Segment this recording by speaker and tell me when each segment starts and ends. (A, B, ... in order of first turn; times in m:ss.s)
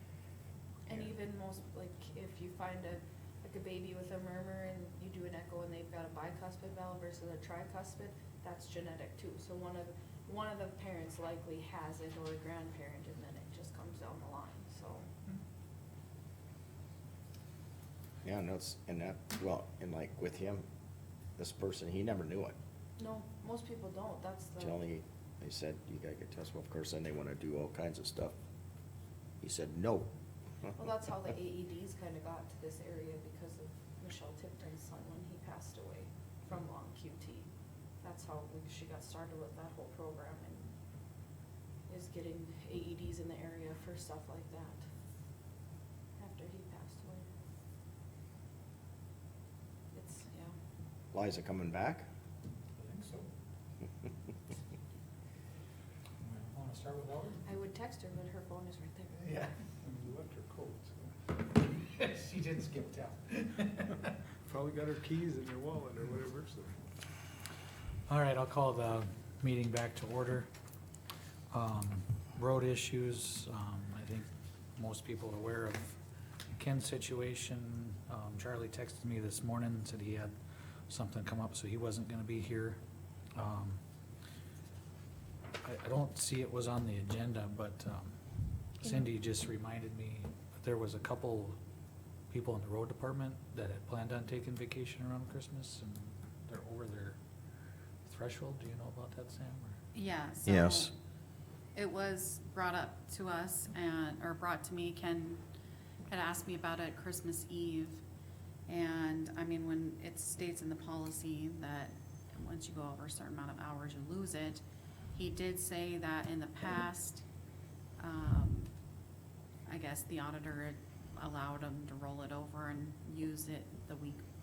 0:00.9-0:15.1 A
0:18.2-0:20.6 B
0:21.4-0:22.6 B
0:23.0-0:24.8 A
0:24.6-0:28.4 B
0:29.4-0:30.1 B
0:30.8-0:37.5 A
0:38.0-0:40.7 A
0:41.9-0:44.8 A
0:46.2-0:47.3 A
0:49.9-0:50.5 A
0:51.1-0:52.1 B
0:52.8-0:53.3 C
0:56.2-0:57.4 C
0:57.4-0:59.2 A
0:59.2-0:59.5 C
0:59.8-1:01.1 D
1:01.6-1:04.1 C
1:04.4-1:06.8 D
1:08.1-1:10.5 C
1:11.5-1:16.0 C
1:16.6-1:20.4 C
1:20.9-1:22.8 C
1:23.4-1:23.8 C
1:25.6-1:28.2 C
1:28.8-1:31.6 C
1:28.8-1:29.1 A
1:32.3-1:37.2 C
1:38.0-1:39.8 C
1:39.9-1:40.9 E
1:40.5-1:40.9 B
1:41.8-1:45.4 E
1:46.1-1:48.0 E
1:48.7-1:54.6 E
1:55.1-1:57.2 E
1:58.0-1:58.7 E
1:59.7-2:04.2 E